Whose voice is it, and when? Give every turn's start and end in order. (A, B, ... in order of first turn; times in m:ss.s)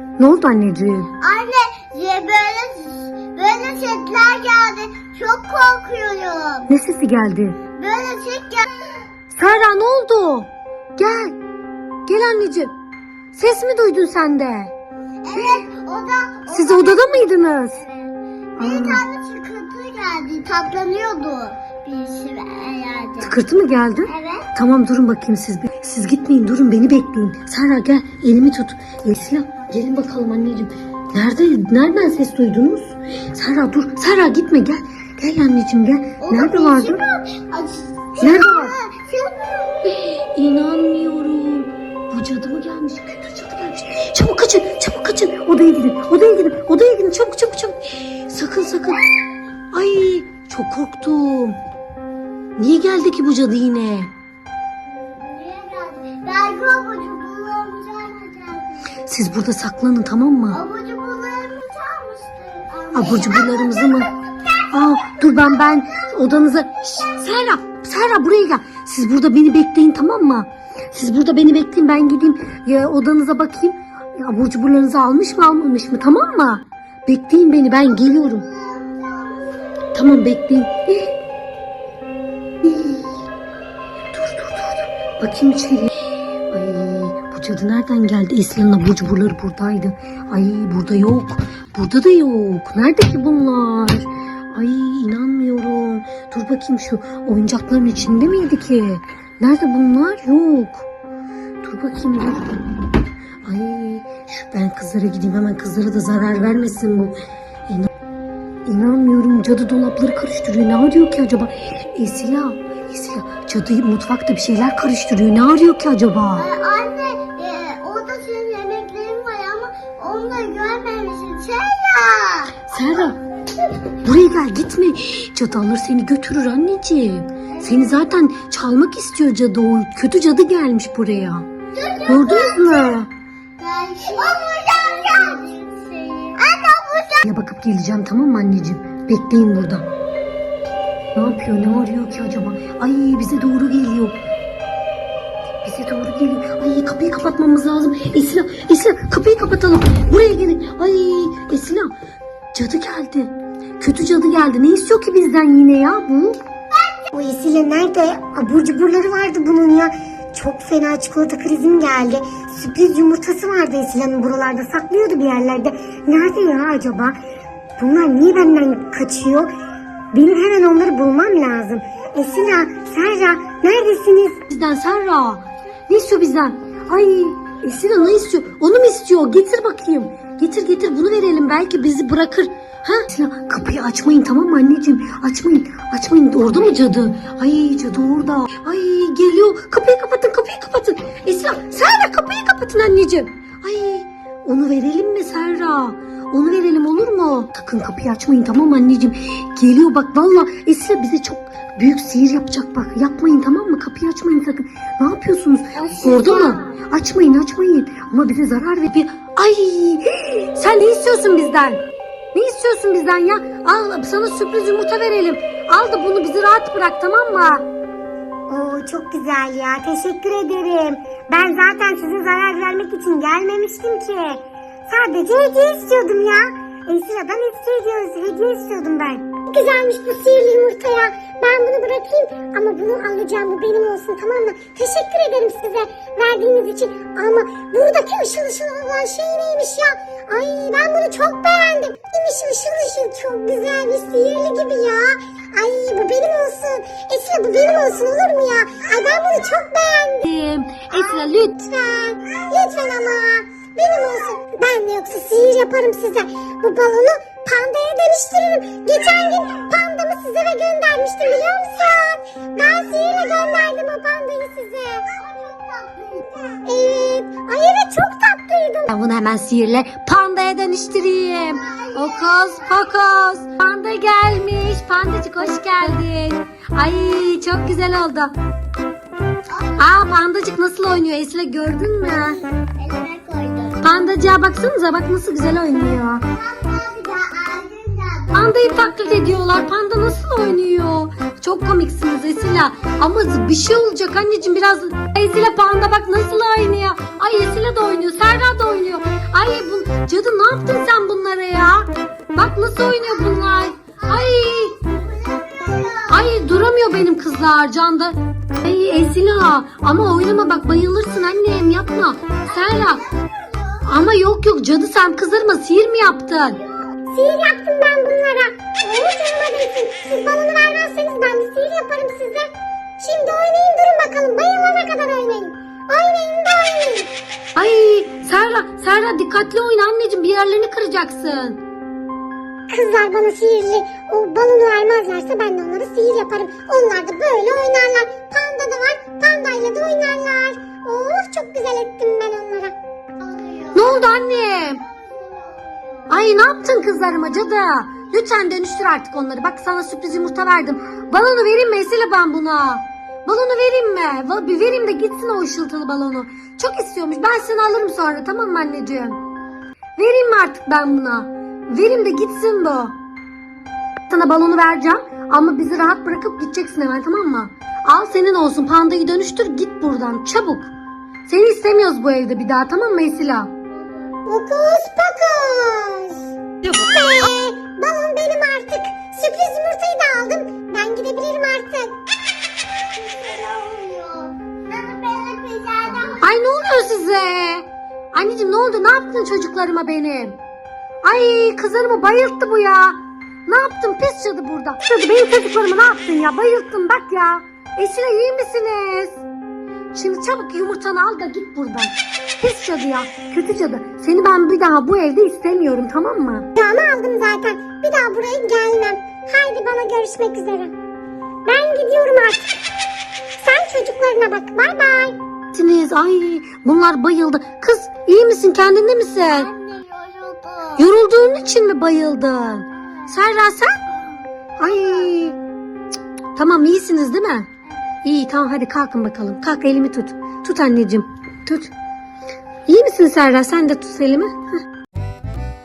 0:00.2-0:01.1 A
0:01.2-0:06.7 B
0:06.7-0:07.6 A
0:07.8-0:09.0 B
0:09.3-0:11.4 A
0:12.0-0:12.7 A
0:13.3-0:14.7 A
0:15.2-0:23.4 B
0:16.5-0:17.8 A
0:18.6-0:19.0 A
0:23.2-0:37.0 A
0:24.0-0:24.5 B
0:36.2-0:40.1 B
0:38.2-0:38.7 A
0:40.1-0:49.0 A
0:49.7-0:51.6 A
0:52.6-0:54.1 A
0:54.9-0:58.9 B
0:59.0-1:00.6 A
1:00.5-1:07.2 B
1:02.9-1:04.1 A
1:04.7-1:18.4 A
1:17.8-1:19.8 B
1:19.9-1:21.1 A
1:22.6-1:23.1 A
1:24.1-1:25.9 A
1:26.5-1:40.8 A
1:41.6-1:42.7 A
1:43.4-1:47.1 A
1:48.6-1:56.5 A
1:56.4-2:02.7 B
2:02.7-2:03.2 A
2:04.0-2:11.4 A
2:07.5-2:08.0 B
2:11.7-2:13.0 B
2:12.1-2:13.1 A
2:13.6-2:17.2 B
2:17.2-2:19.8 A
2:21.1-2:24.1 A
2:25.6-2:31.9 A
2:32.5-2:36.4 A
2:36.7-2:37.1 B
2:37.1-2:47.2 C
2:47.8-2:49.5 C
2:50.1-2:54.4 C
2:54.5-3:31.8 A
3:25.8-3:26.8 B
3:32.3-3:37.6 A
3:38.5-4:10.2 C
4:10.2-4:11.5 A
4:10.9-4:25.1 C
4:25.1-4:26.6 B
4:26.6-4:28.9 C
4:28.9-4:38.3 A
4:31.5-4:32.9 B
4:39.5-4:39.9 B
4:39.8-4:42.4 A
4:42.6-4:43.9 B
4:43.8-4:46.2 A
4:46.3-4:48.5 B
4:48.3-5:04.7 A
5:03.0-5:06.3 B
5:06.1-5:13.0 A
5:12.4-5:13.9 B
5:13.8-5:16.6 A
5:16.6-5:16.9 B
5:17.1-5:27.1 C
5:27.6-5:31.6 A
5:32.7-5:42.7 C
5:43.2-5:46.2 B
5:43.7-5:44.8 A
5:46.1-5:59.2 A
6:00.0-6:02.9 A
6:04.1-6:10.7 A
6:11.2-6:13.5 A
6:13.7-6:14.2 B
6:14.2-6:21.9 C
6:16.6-6:17.0 A
6:22.8-6:26.3 B
6:26.2-6:30.4 A
6:31.0-6:39.2 A
6:39.9-6:46.5 A
6:46.6-6:50.7 C
6:51.4-6:52.5 C
6:53.4-6:55.2 C
6:55.5-6:59.5 A
6:59.3-7:00.9 B
7:00.8-7:03.8 A
7:04.6-7:05.4 A
7:04.6-7:05.2 B
7:06.3-7:07.5 A
7:08.0-7:11.7 A
7:12.7-7:14.3 A